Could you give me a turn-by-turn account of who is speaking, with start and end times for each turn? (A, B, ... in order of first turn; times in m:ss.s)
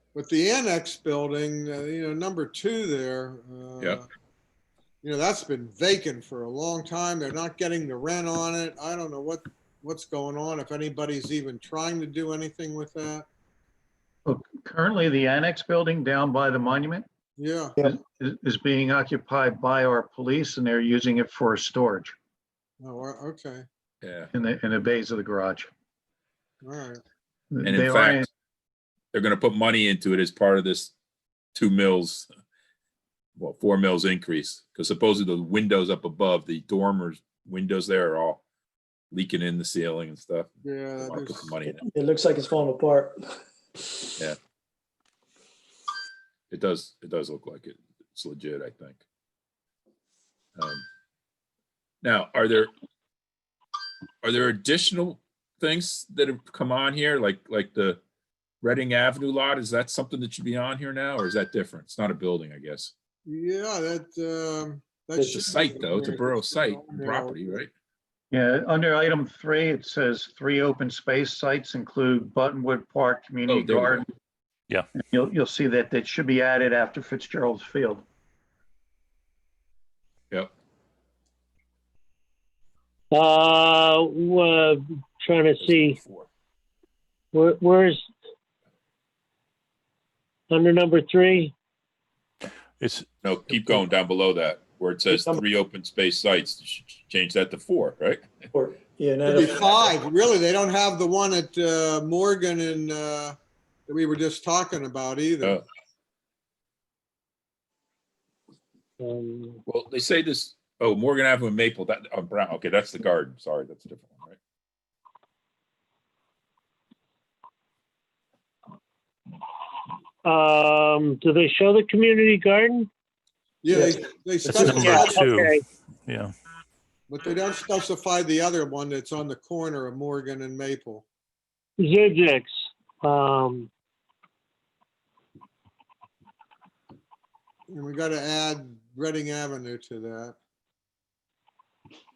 0:00.1-0:04.0 A
0:05.0-0:13.3 A
0:14.2-0:17.0 B
0:17.4-0:17.8 A
0:17.8-0:22.1 B
0:22.8-0:23.6 A
0:24.0-0:24.3 C
0:24.3-0:25.7 B
0:26.6-0:27.0 A
0:27.5-0:28.3 B
0:27.6-0:28.2 C
0:29.1-0:30.9 C
0:31.5-0:32.3 C
0:33.4-0:38.4 C
0:39.1-0:41.8 C
0:40.6-0:41.5 A
0:41.7-0:43.2 D
0:46.5-0:49.0 C
0:50.6-0:50.8 C
0:52.0-0:52.7 C
0:54.2-0:58.0 C
0:58.6-1:02.9 C
1:03.2-1:07.6 A
1:05.2-1:07.7 C
1:08.3-1:14.0 B
1:13.5-1:14.1 C
1:15.0-1:18.0 B
1:23.1-1:26.0 E
1:25.6-1:26.3 C
1:27.3-1:28.1 E
1:30.5-1:31.5 E
1:32.8-1:33.8 F
1:33.2-1:38.4 C
1:35.1-1:35.4 D
1:38.5-1:39.8 D
1:39.2-1:45.6 A
1:49.0-1:49.6 E
1:49.7-1:54.4 C
2:00.2-2:02.9 E
2:03.6-2:05.3 A
2:03.7-2:04.0 D
2:04.4-2:06.3 F
2:04.6-2:05.6 E
2:07.1-2:11.0 A
2:11.8-2:13.7 E
2:17.7-2:20.4 A